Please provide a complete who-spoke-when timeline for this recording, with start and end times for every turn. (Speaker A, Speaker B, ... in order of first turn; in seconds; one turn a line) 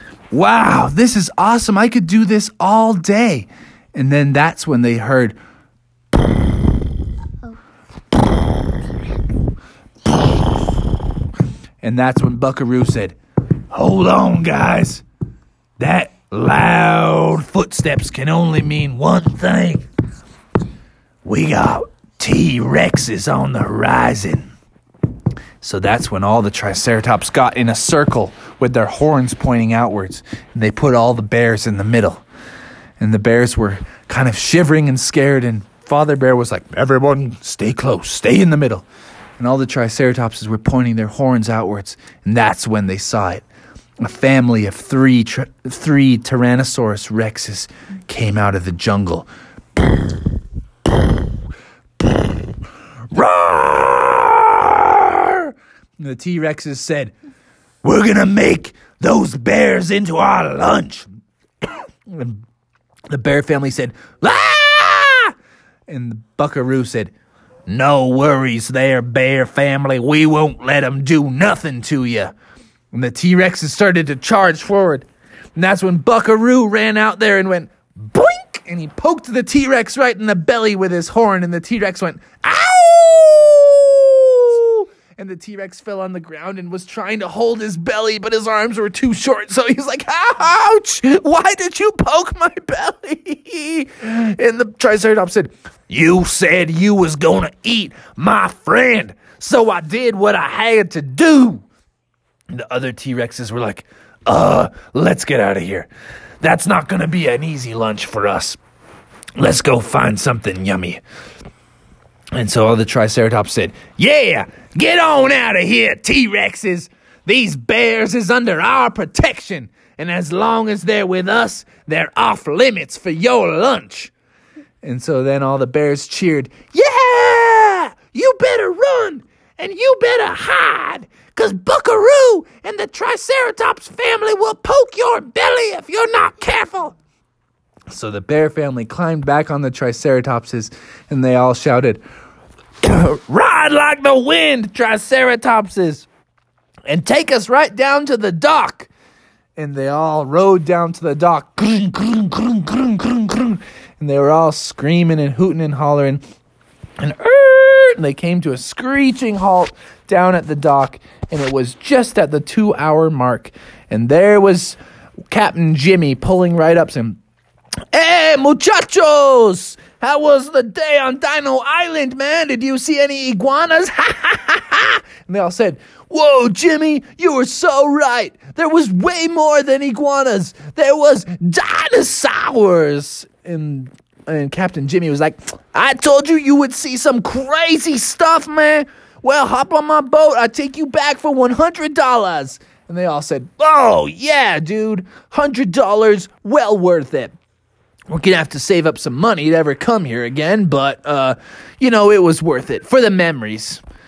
Speaker A: 0.3-5.4
Speaker A: 11.8-13.2
Speaker A: 13.7-15.0
Speaker A: 15.8-19.9
Speaker A: 21.2-24.5
Speaker A: 25.6-32.2
Speaker A: 33.0-38.9
Speaker A: 39.4-43.4
Speaker A: 44.0-49.3
Speaker A: 52.0-52.4
Speaker A: 53.1-57.1
Speaker A: 57.8-61.1
Speaker A: 61.6-62.4
Speaker A: 63.1-65.3
Speaker A: 65.9-67.1
Speaker A: 67.7-72.3
Speaker A: 72.9-101.6
Speaker A: 102.5-105.9
Speaker A: 106.4-108.6
Speaker A: 109.3-111.0
Speaker A: 112.3-124.1
Speaker A: 124.8-137.0
Speaker A: 137.9-142.0
Speaker A: 142.8-146.1
Speaker A: 146.9-148.9
Speaker A: 149.6-156.2
Speaker A: 157.0-164.8
Speaker A: 165.3-167.2
Speaker A: 167.9-197.4
Speaker A: 198.1-203.8